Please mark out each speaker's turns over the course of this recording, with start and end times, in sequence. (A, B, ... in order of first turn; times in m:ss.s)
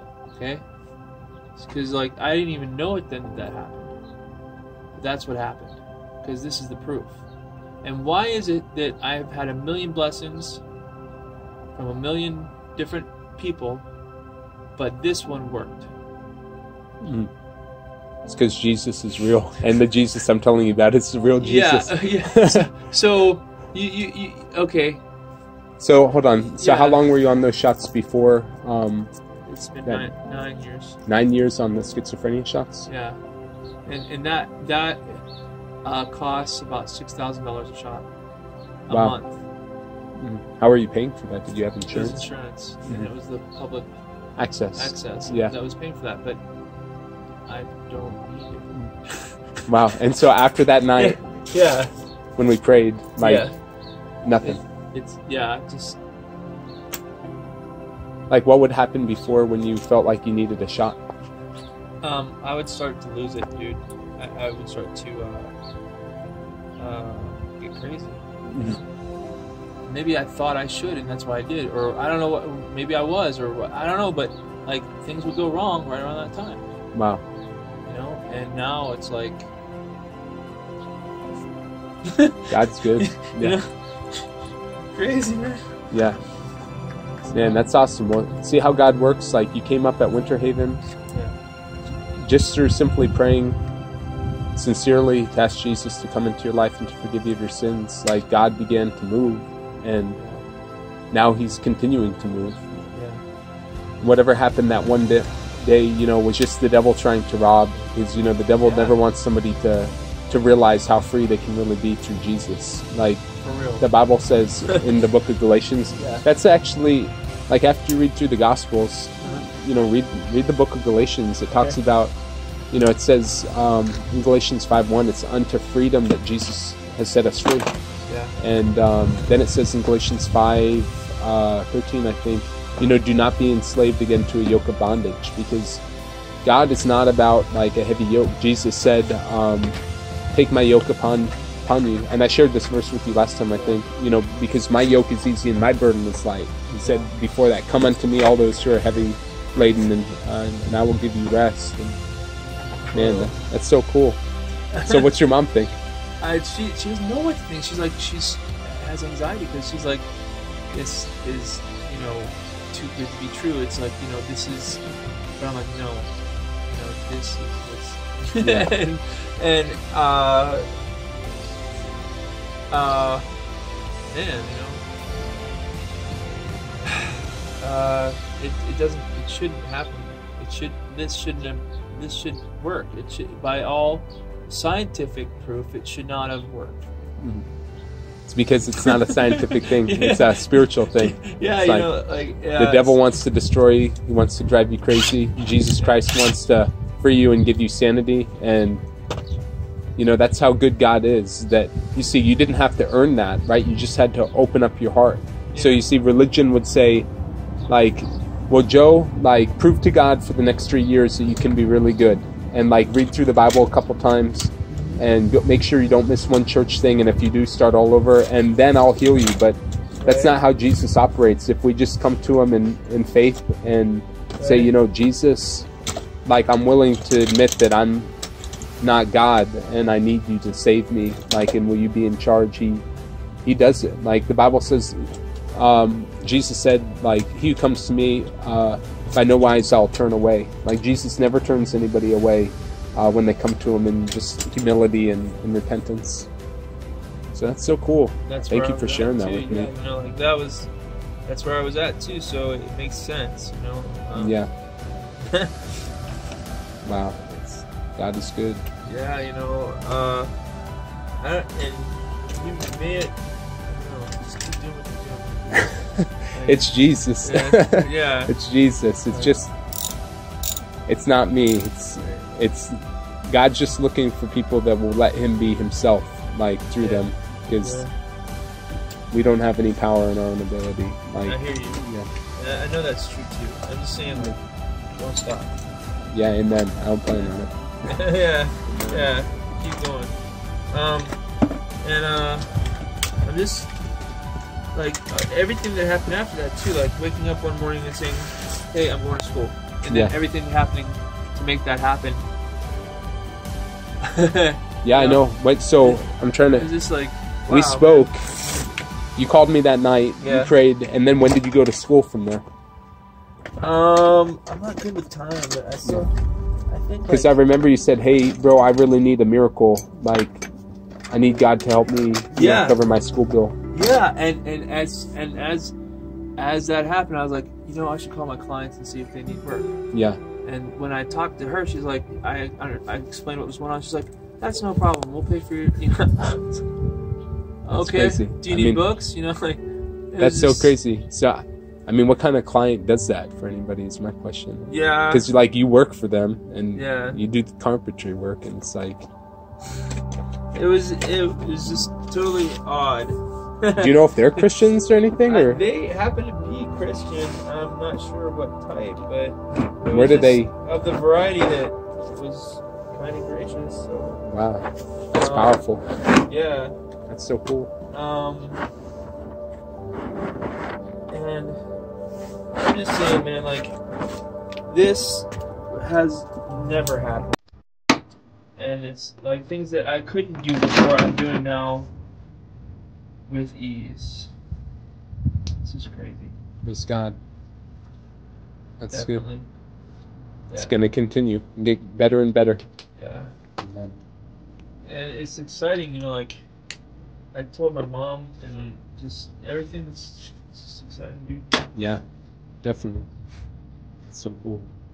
0:00.3-0:00.6 A
0:01.6-0:04.0 A
0:04.9-0:07.2 A
0:07.8-0:10.6 A
0:11.8-0:13.9 A
0:14.8-0:15.9 A
0:17.0-0:17.3 B
0:18.2-0:22.7 B
0:21.4-0:25.0 A
0:25.8-0:29.1 B
0:26.6-0:27.1 A
0:29.4-0:31.0 A
0:31.0-0:32.9 B
0:32.8-0:33.2 A
0:33.8-0:35.2 A
0:35.8-0:38.1 A
0:38.9-0:39.4 A
0:38.9-0:39.2 B
0:40.2-0:42.2 B
0:41.9-0:43.9 A
0:44.4-0:45.5 B
0:44.7-0:46.4 A
0:47.5-0:49.2 A
0:49.7-0:51.2 B
0:51.0-0:51.9 A
0:52.4-0:53.4 B
0:53.2-0:53.5 A
0:54.2-0:54.6 B
0:54.4-0:56.0 A
0:58.3-1:01.0 B
1:02.0-1:05.5 A
1:06.8-1:08.2 A
1:08.5-1:08.8 B
1:09.8-1:16.6 A
1:16.9-1:17.2 B
1:17.8-1:19.5 A
1:22.0-1:24.2 A
1:22.5-1:23.6 B
1:24.9-1:25.8 A
1:25.9-1:26.2 B
1:27.3-1:27.6 A
1:27.3-1:30.8 B
1:32.2-1:33.6 B
1:34.6-1:40.2 B
1:40.1-1:40.4 A
1:41.1-1:42.9 B
1:42.9-1:43.2 A
1:44.0-1:53.2 B
1:48.6-1:49.0 A
1:53.4-1:53.9 A
1:53.8-2:02.1 B
1:56.0-1:56.2 A
1:59.2-1:59.5 A
2:01.5-2:01.8 A
2:02.7-2:07.7 B
2:08.0-2:08.4 A
2:08.4-2:15.8 B
2:16.4-2:19.8 B
2:20.3-2:32.0 B
2:23.5-2:23.8 A
2:26.8-2:27.1 A
2:32.5-2:33.5 A
2:32.9-2:34.2 B
2:34.7-2:35.1 A
2:34.8-2:35.7 B
2:36.2-2:40.1 A
2:40.7-2:46.1 A
2:46.7-2:50.7 A
2:48.4-2:48.7 B
2:52.7-2:53.2 A
2:54.1-2:54.8 A
2:56.8-3:06.8 A
3:07.2-3:07.4 B
3:08.3-3:11.9 B
3:08.8-3:13.0 A
3:12.6-3:18.8 B
3:15.8-3:16.0 A
3:20.0-3:27.1 B
3:25.5-3:25.8 A
3:27.7-3:45.7 B
3:34.7-3:35.0 A
3:40.0-3:40.4 A
3:44.4-3:44.7 A
3:46.2-3:48.1 B
3:48.8-3:52.8 B
3:53.4-4:06.3 B
4:07.3-4:09.7 B
4:08.2-4:10.7 A
4:11.2-4:14.4 A
4:14.1-4:14.5 B
4:15.3-4:15.6 A
4:16.8-4:18.6 B
4:18.8-4:20.3 A
4:21.2-4:28.3 A
4:25.7-4:29.5 B
4:29.1-4:29.4 A
4:30.9-4:37.8 B
4:32.0-4:32.2 A
4:36.8-4:37.1 A
4:37.6-4:37.9 A
4:39.1-4:42.1 B
4:41.2-4:45.6 A
4:46.1-4:48.0 B
4:47.1-4:47.3 A
4:47.8-4:50.2 A
4:48.6-4:49.1 B
4:50.7-4:51.2 A
4:51.8-4:52.5 A
4:53.2-4:53.7 A
4:54.7-5:02.3 A
5:04.0-5:05.2 A
5:04.8-5:06.7 B
5:05.8-5:08.1 A
5:07.5-5:08.2 B
5:09.2-5:12.4 B
5:10.2-5:10.5 A
5:13.6-5:16.2 A
5:16.7-5:17.3 A
5:17.1-5:20.4 B
5:21.1-5:23.6 B
5:22.3-5:22.8 A
5:23.7-5:25.7 A
5:26.4-5:29.7 A
5:29.9-5:30.2 B
5:30.4-5:36.6 A
5:37.6-5:40.8 A
5:37.7-5:38.8 B
5:40.2-5:49.1 B
5:44.7-5:45.2 A
5:46.7-5:47.2 A
5:50.5-5:54.5 A
5:53.8-5:55.6 B
5:55.2-6:04.2 A
5:59.9-6:00.5 B
6:04.2-6:05.8 B
6:05.1-6:05.6 A
6:06.1-6:06.7 A
6:07.1-6:07.7 B
6:07.9-6:08.6 A
6:11.1-6:11.6 A
6:12.5-6:13.8 A
6:14.7-6:17.4 A
6:18.6-6:21.9 A
6:23.3-6:24.3 A
6:25.6-6:26.4 A
6:26.6-6:27.2 B
6:28.8-6:29.2 B
6:28.9-6:29.5 A
6:30.5-6:30.8 A
6:30.5-6:32.6 B
6:33.0-6:33.3 A
6:33.6-6:34.0 B
6:34.8-6:36.4 A
6:37.3-6:41.5 A
6:41.8-6:42.0 B
6:42.6-6:43.1 B
6:44.1-6:44.7 B